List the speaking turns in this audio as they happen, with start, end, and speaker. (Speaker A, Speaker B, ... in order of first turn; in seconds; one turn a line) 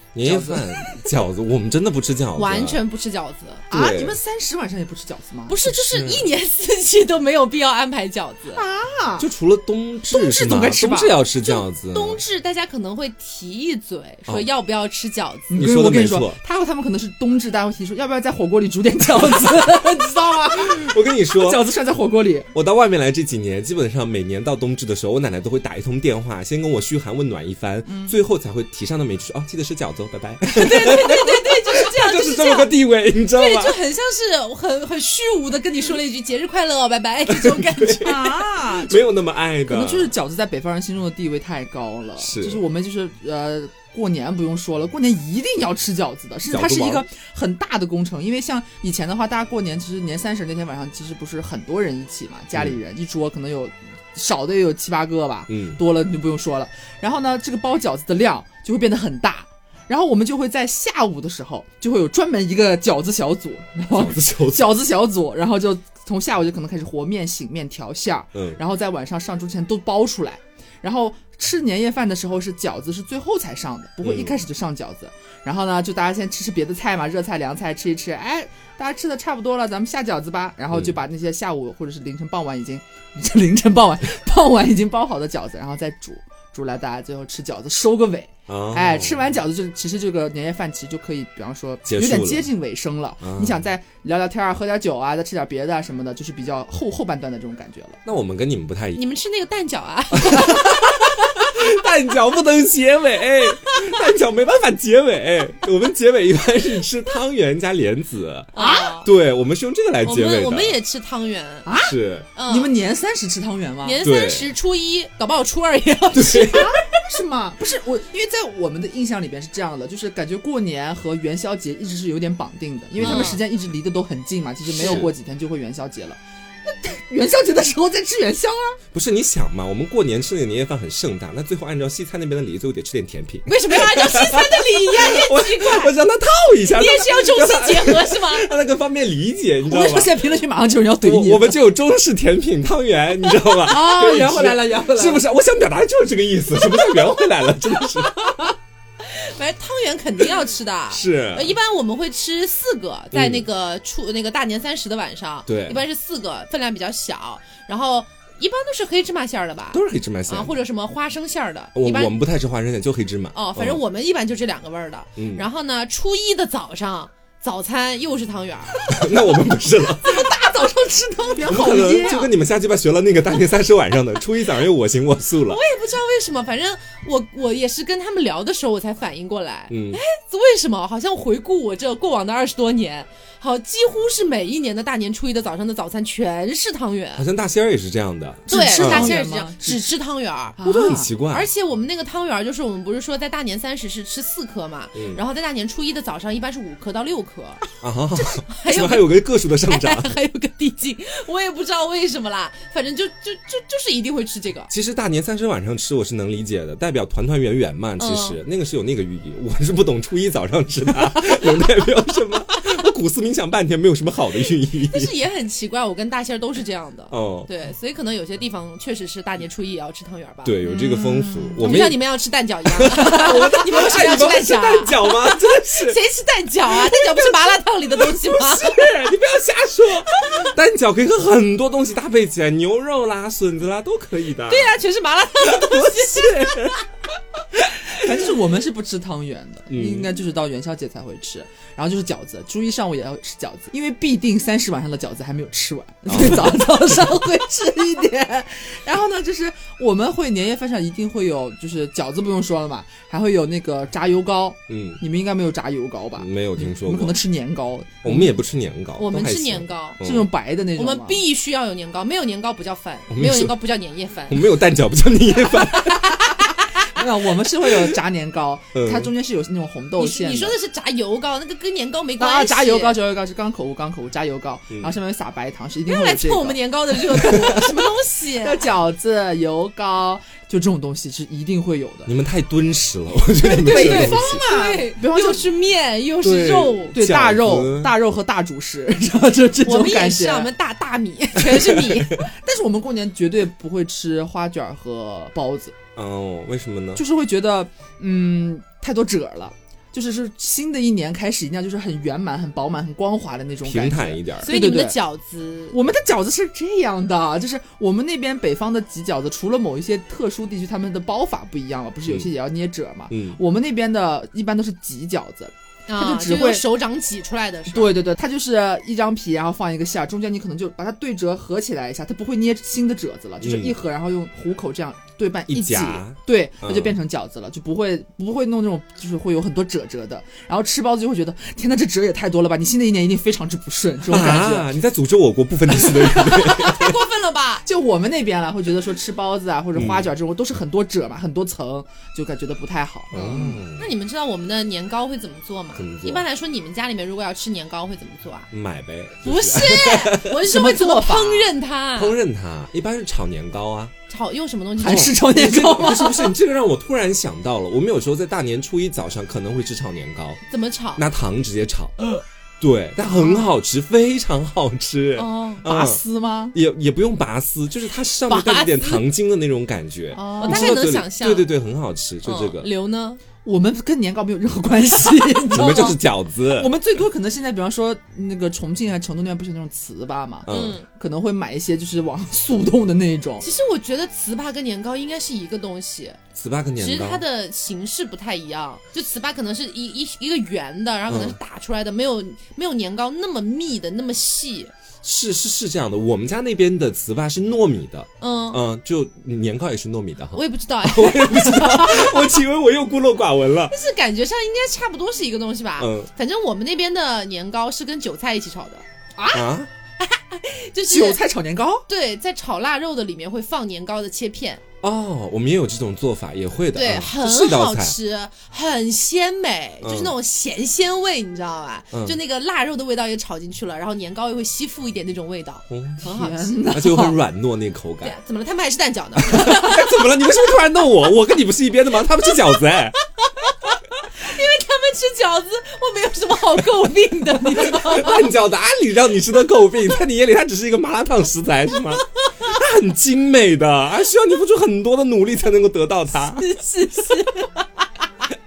Speaker A: 0.1-2.8
Speaker B: 0.2-0.9
Speaker C: 2.4-3.6
Speaker A: 3.7-4.2
Speaker B: 3.7-5.6
Speaker C: 5.5-8.6
Speaker A: 5.6-6.3
Speaker B: 8.5-9.3
Speaker A: 9.2-12.2
Speaker B: 10.1-11.2
Speaker C: 11.4-15.7
Speaker B: 15.5-22.5
Speaker A: 15.6-16.4
Speaker A: 20.5-21.6
Speaker A: 22.5-33.8
Speaker B: 27.9-28.1
Speaker C: 30.5-32.7
Speaker C: 33.3-38.1
Speaker A: 37.3-40.1
Speaker B: 38.0-39.0
Speaker B: 39.6-98.0
Speaker A: 42.2-42.6
Speaker A: 46.5-47.1
Speaker A: 55.5-55.8
Speaker A: 63.9-64.8
Speaker A: 74.0-74.4
Speaker A: 88.5-89.3
Speaker A: 91.9-92.5
Speaker A: 93.2-93.6
Speaker A: 98.0-99.0
Speaker C: 99.0-101.1
Speaker A: 100.2-110.8
Speaker C: 108.5-109.1
Speaker B: 108.6-109.0
Speaker C: 110.0-111.7
Speaker B: 111.7-114.0
Speaker A: 111.8-112.3
Speaker C: 112.4-112.7
Speaker C: 113.8-116.8
Speaker A: 114.0-114.5
Speaker A: 116.1-116.7
Speaker B: 116.5-128.8
Speaker A: 123.0-123.4
Speaker C: 123.0-123.4
Speaker C: 124.8-125.1
Speaker A: 124.8-125.1
Speaker A: 128.9-140.3
Speaker C: 133.5-135.9
Speaker C: 136.7-138.5
Speaker B: 139.7-141.6
Speaker A: 141.0-148.4
Speaker B: 143.6-145.3
Speaker C: 149.0-162.1
Speaker A: 150.9-151.6
Speaker A: 153.1-153.5
Speaker A: 155.5-155.8
Speaker A: 159.7-160.6
Speaker A: 161.8-163.8
Speaker C: 163.3-168.9
Speaker A: 165.2-165.4
Speaker A: 168.9-170.3
Speaker B: 170.0-172.3
Speaker A: 171.4-175.6
Speaker C: 175.5-187.3
Speaker A: 179.7-180.0
Speaker A: 187.2-189.2
Speaker B: 188.5-189.9
Speaker C: 188.5-197.6
Speaker B: 190.6-191.1
Speaker A: 190.7-191.5
Speaker A: 194.9-195.2
Speaker A: 197.8-200.2
Speaker C: 198.2-204.7
Speaker A: 204.7-215.1
Speaker C: 208.0-208.4
Speaker C: 214.8-228.9
Speaker A: 217.1-217.5
Speaker A: 220.4-222.0
Speaker B: 220.9-221.7
Speaker A: 222.7-226.0
Speaker A: 226.9-227.3
Speaker A: 228.0-234.8
Speaker C: 230.1-230.4
Speaker C: 234.5-236.8
Speaker A: 235.4-236.8
Speaker B: 237.9-258.4
Speaker A: 239.7-240.1
Speaker A: 246.1-246.6
Speaker A: 254.7-255.0
Speaker A: 256.2-257.2
Speaker A: 258.0-260.3
Speaker C: 259.0-260.0
Speaker B: 260.0-261.2
Speaker C: 260.8-264.5
Speaker A: 263.1-263.6
Speaker A: 264.3-266.3
Speaker C: 265.5-266.9
Speaker B: 266.9-270.6
Speaker A: 267.6-267.9
Speaker A: 268.8-269.1
Speaker C: 270.0-273.0
Speaker B: 272.2-277.7
Speaker C: 275.9-278.6
Speaker B: 278.4-282.1
Speaker A: 282.1-284.4
Speaker B: 283.4-285.5
Speaker C: 283.5-287.0
Speaker A: 286.2-287.9
Speaker B: 286.9-290.5
Speaker C: 289.6-292.2
Speaker B: 291.7-295.8
Speaker A: 296.0-297.0
Speaker B: 297.0-305.0
Speaker A: 303.6-304.5
Speaker C: 304.4-305.8
Speaker B: 305.7-316.6
Speaker A: 313.1-313.4
Speaker C: 315.9-318.0
Speaker B: 317.7-334.7
Speaker A: 323.4-323.8
Speaker A: 325.5-327.0
Speaker A: 334.1-337.0
Speaker B: 335.9-336.3
Speaker C: 336.1-337.6
Speaker B: 337.6-343.6
Speaker A: 339.8-340.1
Speaker A: 343.1-343.9
Speaker C: 343.2-348.5
Speaker A: 345.8-346.2
Speaker A: 348.5-350.4
Speaker C: 349.2-352.2
Speaker B: 350.4-351.5
Speaker A: 351.9-353.9
Speaker C: 354.1-355.2
Speaker B: 354.8-356.4
Speaker A: 354.9-360.4
Speaker C: 360.5-361.0
Speaker A: 361.0-362.0
Speaker A: 362.6-366.0
Speaker C: 365.1-365.6
Speaker B: 365.6-366.6
Speaker A: 366.5-372.7
Speaker C: 368.3-369.0
Speaker B: 370.1-370.8
Speaker C: 370.3-371.5
Speaker C: 372.2-373.2
Speaker B: 373.4-383.5
Speaker A: 375.5-376.7
Speaker C: 375.6-375.9
Speaker A: 380.5-380.8
Speaker C: 380.5-380.9
Speaker C: 383.4-386.2
Speaker A: 386.4-387.2
Speaker C: 386.8-394.7
Speaker A: 391.1-391.4
Speaker A: 395.0-403.7
Speaker C: 398.2-398.6
Speaker C: 400.3-402.4
Speaker C: 403.7-408.9
Speaker A: 405.8-406.1
Speaker B: 409.2-409.5
Speaker A: 409.3-409.7
Speaker C: 410.0-411.2
Speaker B: 410.9-411.9
Speaker C: 411.9-414.6
Speaker A: 414.8-418.0
Speaker C: 416.8-426.5
Speaker A: 419.8-420.1
Speaker A: 421.9-422.2
Speaker A: 425.7-426.0
Speaker B: 426.0-427.2
Speaker A: 426.7-428.2
Speaker C: 428.0-430.0
Speaker A: 429.2-433.0
Speaker C: 434.1-438.3
Speaker A: 437.5-446.5
Speaker C: 446.3-447.6